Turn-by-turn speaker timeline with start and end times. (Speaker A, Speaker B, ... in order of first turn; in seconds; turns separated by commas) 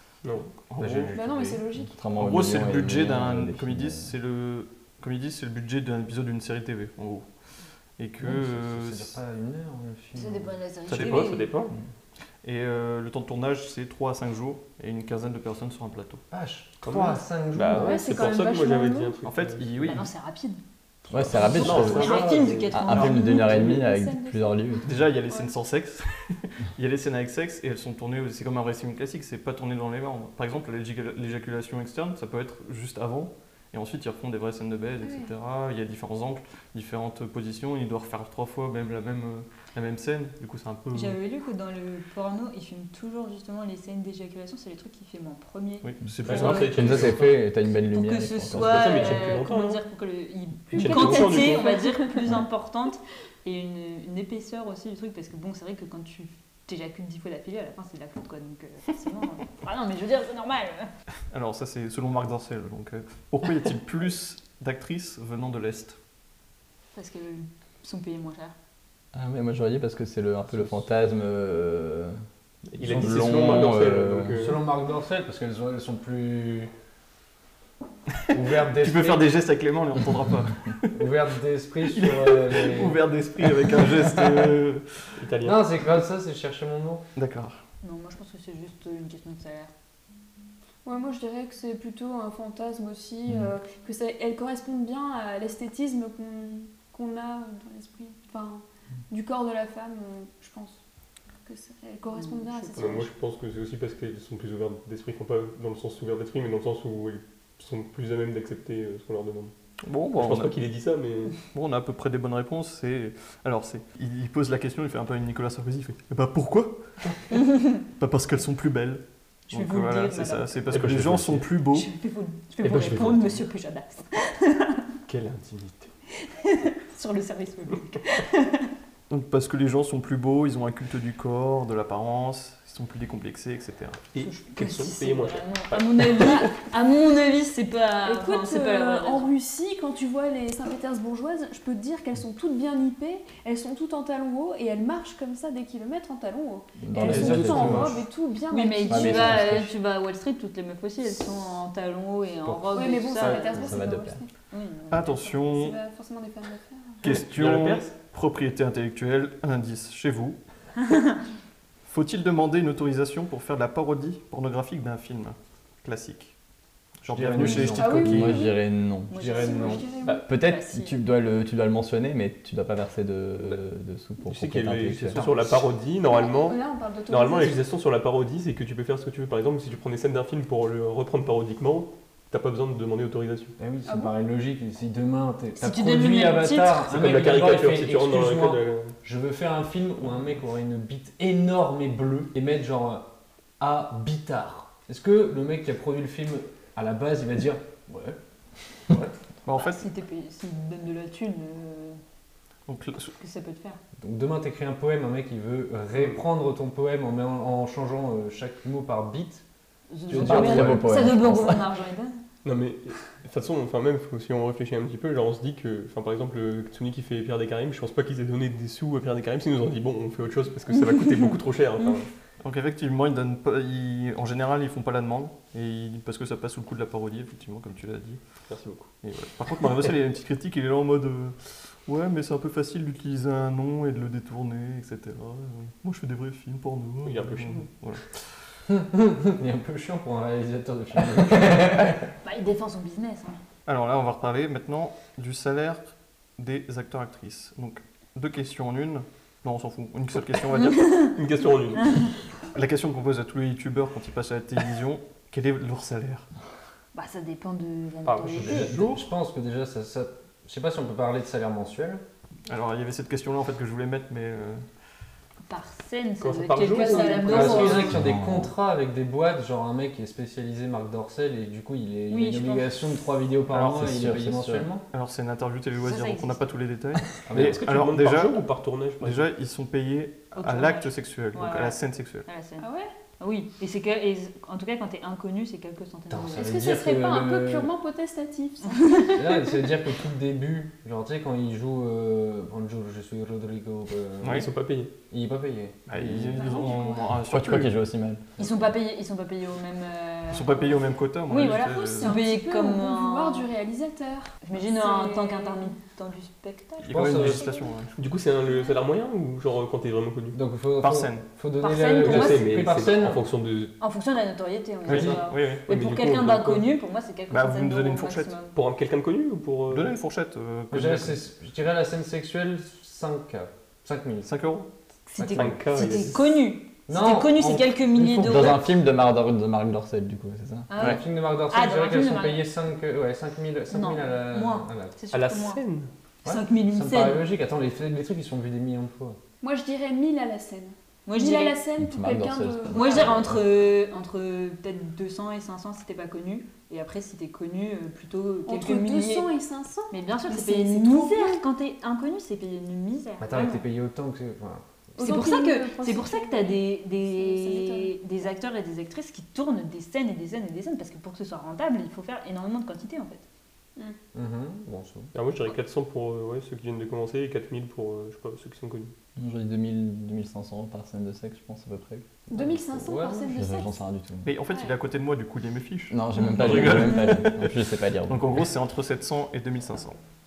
Speaker A: 0.2-1.6, Speaker B: 0.3-1.1, Speaker C: 1.1-2.0, Speaker D: 1.8-4.1, Speaker B: 2.2-9.2, Speaker E: 8.2-10.6, Speaker F: 10.1-11.5, Speaker A: 10.9-11.7, Speaker B: 10.9-11.3, Speaker B: 12.4-16.2, Speaker E: 16.3-18.2, Speaker A: 16.8-20.0, Speaker C: 17.7-19.2, Speaker B: 19.2-20.1, Speaker F: 19.8-23.6, Speaker D: 21.1-22.2, Speaker B: 21.6-22.3, Speaker A: 21.6-22.8, Speaker E: 21.8-22.7, Speaker D: 22.7-24.9, Speaker C: 22.9-25.5, Speaker E: 23.4-23.7, Speaker B: 24.8-41.2, Speaker C: 35.0-35.3, Speaker F: 40.9-60.9, Speaker B: 45.8-47.1, Speaker A: 46.2-47.2, Speaker D: 46.7-49.0, Speaker A: 48.5-49.8, Speaker A: 50.7-51.7, Speaker C: 50.9-52.1, Speaker B: 61.3-66.0, Speaker F: 66.9-68.5, Speaker D: 69.1-72.2, Speaker A: 72.7-74.6, Speaker D: 72.8-74.5, Speaker E: 73.0-73.3, Speaker E: 74.3-76.7, Speaker E: 78.3-79.3, Speaker B: 78.8-81.1, Speaker E: 80.9-84.5, Speaker B: 81.9-85.2, Speaker A: 85.2-85.6, Speaker E: 85.4-87.0, Speaker B: 87.2-87.6, Speaker F: 87.8-89.7, Speaker C: 90.8-100.8, Speaker C: 101.4-103.1, Speaker F: 102.1-102.7, Speaker A: 102.7-109.5, Speaker B: 109.8-110.6, Speaker A: 110.1-111.4, Speaker B: 111.4-121.9, Speaker F: 119.5-120.8, Speaker A: 120.7-121.5, Speaker F: 121.7-124.8, Speaker A: 122.6-123.4, Speaker A: 125.1-125.9, Speaker F: 126.2-128.7, Speaker B: 129.1-134.1, Speaker A: 134.1-136.5, Speaker F: 134.2-139.3, Speaker C: 138.0-149.4, Speaker D: 146.8-148.0, Speaker E: 147.0-148.0, Speaker F: 148.5-153.8, Speaker D: 148.9-149.7, Speaker E: 152.4-152.8, Speaker C: 152.7-154.3, Speaker A: 153.2-153.4, Speaker D: 153.5-154.2, Speaker F: 154.5-155.1, Speaker B: 154.9-155.8, Speaker C: 155.0-157.0, Speaker A: 157.0-157.9, Speaker B: 157.0-160.8, Speaker B: 161.8-166.4, Speaker B: 167.0-168.4, Speaker E: 167.1-168.2, Speaker C: 167.8-168.6, Speaker D: 167.9-169.2, Speaker F: 169.1-170.9, Speaker E: 169.1-169.9, Speaker C: 169.2-170.2, Speaker D: 170.2-175.4, Speaker A: 174.2-183.6, Speaker E: 175.1-175.5, Speaker C: 176.0-177.7, Speaker E: 183.6-199.1, Speaker C: 183.8-184.1, Speaker F: 185.6-186.8, Speaker A: 186.9-189.0, Speaker B: 199.4-199.8, Speaker F: 199.5-202.0, Speaker B: 202.7-203.2, Speaker F: 203.2-203.8, Speaker E: 204.0-209.4, Speaker A: 205.9-206.2, Speaker F: 209.9-212.2, Speaker E: 210.1-211.0, Speaker D: 210.1-211.6, Speaker A: 212.4-222.1, Speaker B: 222.4-238.6, Speaker A: 228.5-228.9, Speaker A: 237.0-237.7, Speaker E: 238.7-242.0, Speaker F: 242.2-243.4, Speaker B: 243.7-251.2, Speaker F: 250.7-251.1, Speaker A: 250.9-252.2, Speaker B: 252.4-256.3, Speaker F: 256.9-258.7, Speaker A: 258.0-259.0, Speaker E: 258.3-262.0, Speaker B: 262.5-264.6, Speaker F: 265.4-267.9, Speaker A: 266.2-267.9, Speaker C: 266.9-267.2, Speaker E: 267.2-274.9, Speaker D: 267.9-268.5, Speaker F: 272.1-272.6, Speaker B: 273.5-273.9, Speaker D: 273.7-274.7, Speaker B: 274.9-282.3, Speaker F: 275.8-276.4, Speaker E: 277.2-277.6, Speaker A: 277.3-279.3, Speaker F: 280.3-286.5, Speaker C: 282.6-282.9, Speaker E: 286.1-287.7, Speaker C: 286.3-289.6, Speaker F: 288.6-289.1, Speaker E: 289.1-294.5, Speaker B: 294.2-294.5, Speaker A: 294.3-294.9, Speaker E: 295.1-296.4, Speaker B: 295.9-297.8, Speaker C: 296.4-297.1, Speaker D: 297.3-298.2, Speaker E: 298.4-298.6, Speaker F: 298.4-303.5, Speaker B: 300.3-302.1, Speaker C: 301.3-305.7, Speaker A: 301.4-301.8, Speaker F: 304.4-307.7, Speaker B: 306.8-307.9, Speaker E: 306.9-307.5, Speaker C: 307.4-307.7, Speaker A: 307.9-310.4, Speaker E: 310.3-313.2, Speaker B: 310.8-311.3, Speaker F: 311.6-312.6, Speaker A: 312.0-313.7, Speaker F: 313.8-318.5, Speaker B: 314.9-315.6, Speaker A: 314.9-316.7, Speaker B: 317.3-318.4, Speaker A: 318.5-319.9, Speaker B: 319.7-321.2, Speaker E: 320.7-324.4, Speaker B: 324.2-324.7, Speaker F: 325.1-328.6, Speaker E: 325.2-326.1, Speaker A: 325.3-326.3, Speaker E: 326.9-328.6, Speaker D: 328.2-330.7, Speaker F: 330.7-332.5, Speaker E: 330.8-335.0, Speaker F: 333.7-335.6, Speaker A: 335.1-335.9, Speaker E: 336.2-339.2, Speaker F: 336.2-337.2, Speaker C: 339.4-343.2, Speaker F: 341.1-341.6, Speaker D: 341.8-343.2, Speaker F: 342.7-349.3, Speaker C: 348.5-351.4, Speaker F: 349.9-353.6, Speaker E: 353.2-354.9, Speaker C: 355.0-358.0, Speaker F: 355.0-363.2, Speaker E: 364.1-365.1, Speaker A: 365.1-368.9, Speaker D: 369.1-372.0, Speaker C: 372.3-373.8, Speaker E: 372.3-373.3, Speaker D: 373.3-374.3, Speaker B: 374.2-380.0, Speaker C: 374.5-374.7, Speaker D: 375.9-378.4